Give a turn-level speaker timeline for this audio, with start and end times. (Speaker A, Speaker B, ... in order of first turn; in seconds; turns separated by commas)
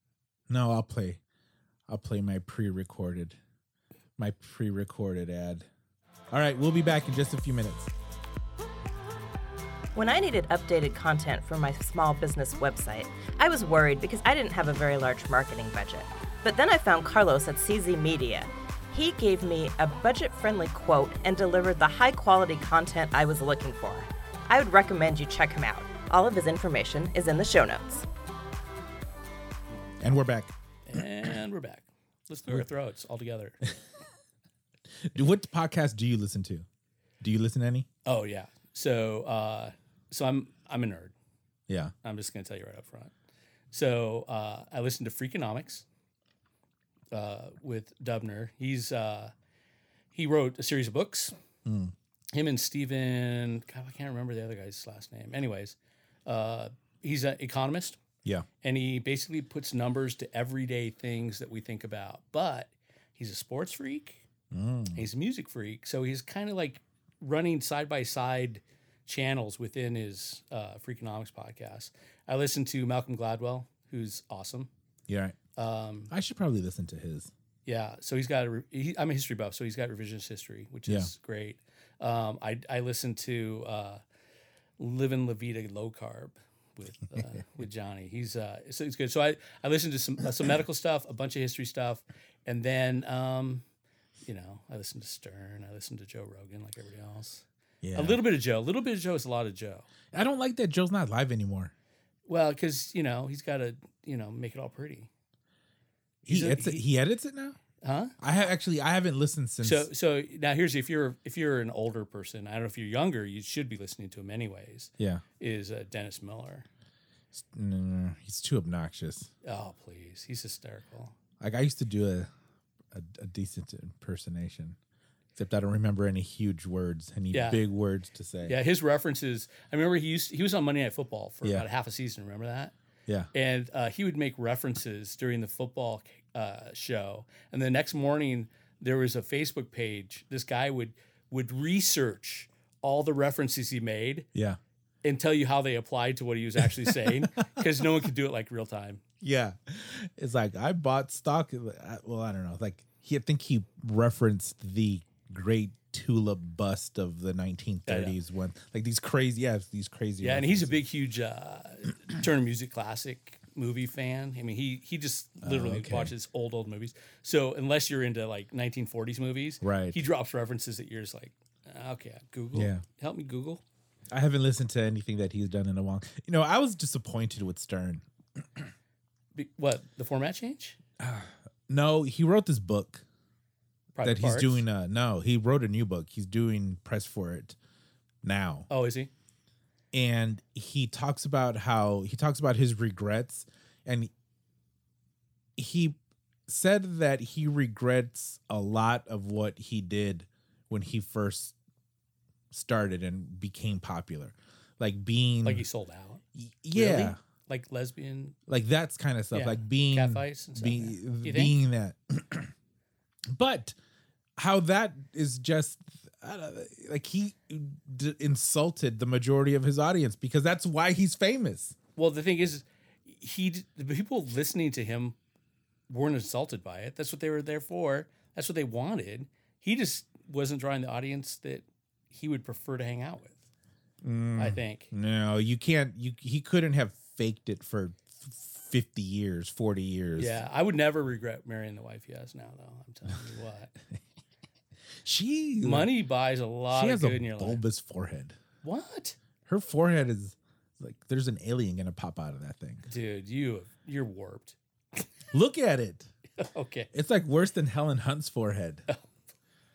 Speaker A: 0.5-1.2, Speaker A: 1.9-3.4, Speaker A: 4.2-5.7, Speaker A: 6.3-7.9, Speaker B: 9.9-28.1, Speaker A: 30.0-30.5, Speaker C: 30.9-33.6, Speaker A: 35.0-36.6, Speaker A: 37.2-37.9, Speaker C: 38.0-41.1, Speaker A: 41.7-41.9, Speaker C: 42.0-43.1, Speaker C: 43.7-45.8, Speaker C: 47.1-49.3, Speaker C: 50.1-51.3, Speaker A: 51.6-51.9, Speaker C: 52.3-58.0, Speaker C: 58.6-64.2, Speaker A: 64.5-65.1, Speaker C: 64.9-74.7, Speaker A: 75.1-75.4, Speaker C: 75.5-76.1, Speaker A: 76.1-77.3, Speaker C: 77.7-84.0, Speaker C: 84.8-93.6, Speaker C: 94.2-99.9, Speaker A: 97.8-98.2, Speaker A: 100.1-101.7, Speaker C: 102.3-105.1, Speaker A: 106.2-107.6, Speaker C: 106.3-106.8, Speaker C: 107.8-108.1, Speaker A: 108.2-109.9, Speaker C: 109.6-116.7, Speaker A: 117.3-119.3, Speaker C: 119.4-121.1, Speaker A: 121.4-122.3, Speaker A: 122.9-124.8, Speaker A: 125.3-128.6, Speaker C: 127.3-127.6, Speaker C: 128.4-132.7, Speaker C: 133.3-144.3, Speaker C: 145.0-149.0, Speaker A: 146.8-147.1, Speaker A: 149.2-160.8, Speaker C: 157.9-158.2, Speaker C: 160.2-173.6, Speaker A: 165.4-166.1, Speaker A: 169.6-170.0, Speaker A: 172.5-172.8, Speaker A: 174.1-178.7, Speaker C: 179.3-180.8, Speaker A: 181.0-183.0, Speaker C: 183.9-184.6, Speaker A: 184.0-187.6, Speaker A: 188.2-188.7, Speaker C: 188.7-189.1, Speaker A: 189.9-194.1, Speaker A: 195.6-201.5, Speaker A: 202.5-205.6, Speaker C: 205.4-206.2, Speaker A: 206.3-207.2, Speaker C: 206.7-208.4, Speaker A: 208.5-212.5, Speaker C: 209.3-211.5, Speaker A: 213.3-213.7, Speaker A: 214.4-221.8, Speaker C: 221.9-225.2, Speaker C: 225.9-233.4, Speaker A: 234.0-240.4, Speaker C: 234.4-234.9, Speaker C: 240.2-243.7, Speaker A: 245.0-245.9, Speaker C: 245.6-247.6, Speaker A: 246.7-248.3, Speaker C: 248.6-249.2, Speaker A: 249.5-252.9, Speaker C: 252.9-255.0, Speaker A: 255.3-256.1, Speaker C: 256.4-256.9, Speaker A: 256.9-258.8